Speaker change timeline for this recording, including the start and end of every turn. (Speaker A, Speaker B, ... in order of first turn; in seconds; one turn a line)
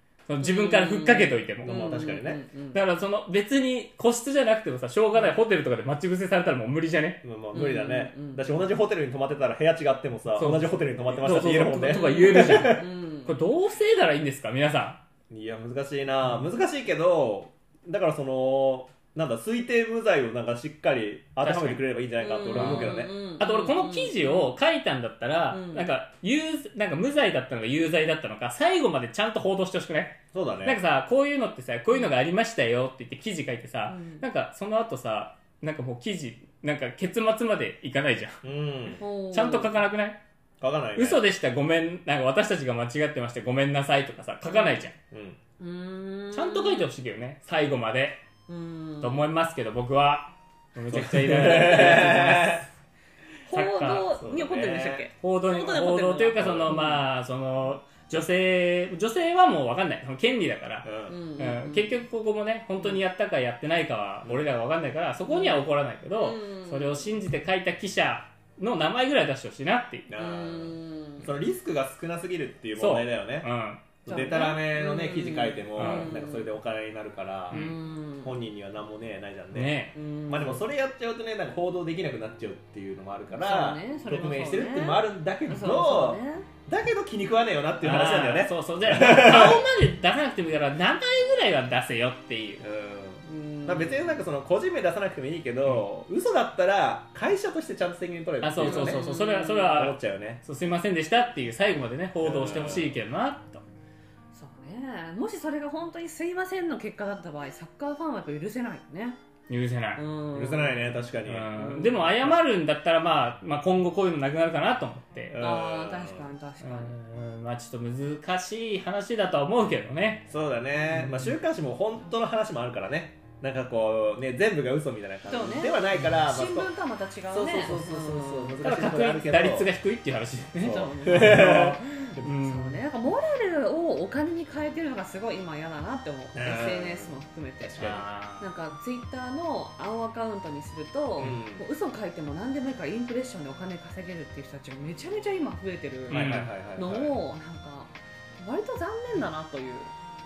Speaker A: 0.3-1.8
Speaker B: 0.4-2.8
Speaker C: 1.6-2.4
Speaker A: 2.7-7.2
Speaker C: 7.2-12.8
Speaker B: 7.5-8.7
Speaker A: 10.3-15.0
Speaker B: 11.8-13.3
Speaker C: 15.3-23.1
Speaker A: 21.4-21.8
Speaker B: 22.2-24.6
Speaker A: 22.6-38.4
Speaker B: 25.5-25.9
Speaker C: 30.3-30.8
Speaker B: 33.9-34.2
Speaker C: 38.4-39.0
Speaker B: 39.0-39.8
Speaker A: 39.3-40.2
Speaker C: 40.6-41.2
Speaker A: 41.0-44.9
Speaker B: 44.4-44.9
Speaker C: 45.1-45.4
Speaker B: 45.6-46.9
Speaker A: 46.3-48.2
Speaker B: 48.5-49.3
Speaker A: 49.0-52.6
Speaker C: 50.9-52.6
Speaker B: 53.5-57.0
Speaker A: 53.5-54.1
Speaker C: 54.1-55.0
Speaker A: 55.2-70.1
Speaker C: 56.4-56.8
Speaker C: 60.8-61.1
Speaker B: 61.1-62.0
Speaker B: 65.2-67.1
Speaker C: 70.1-73.5
Speaker B: 70.2-71.3
Speaker A: 72.8-73.8
Speaker C: 74.0-77.7
Speaker B: 74.1-76.5
Speaker A: 75.8-76.1
Speaker B: 77.5-78.3
Speaker C: 78.2-89.6
Speaker A: 79.5-79.9
Speaker B: 79.9-80.6
Speaker B: 83.3-86.5
Speaker A: 87.8-92.6
Speaker C: 92.6-99.0
Speaker B: 93.2-94.2
Speaker A: 98.4-103.6
Speaker B: 98.6-99.9
Speaker C: 99.8-100.4
Speaker C: 102.2-102.9
Speaker B: 104.3-109.2
Speaker A: 109.5-110.0
Speaker B: 109.9-111.0
Speaker C: 110.3-111.6
Speaker A: 111.2-115.3
Speaker B: 111.6-112.0
Speaker C: 115.3-116.3
Speaker B: 115.4-117.0
Speaker A: 116.6-120.3
Speaker C: 120.3-126.7
Speaker A: 120.9-121.3
Speaker B: 125.3-128.7
Speaker C: 127.3-129.7
Speaker A: 128.6-132.8
Speaker C: 130.6-131.8
Speaker B: 130.6-149.9
Speaker C: 136.3-138.0
Speaker A: 137.8-138.5
Speaker C: 141.2-141.6
Speaker A: 146.1-146.5
Speaker C: 146.1-147.2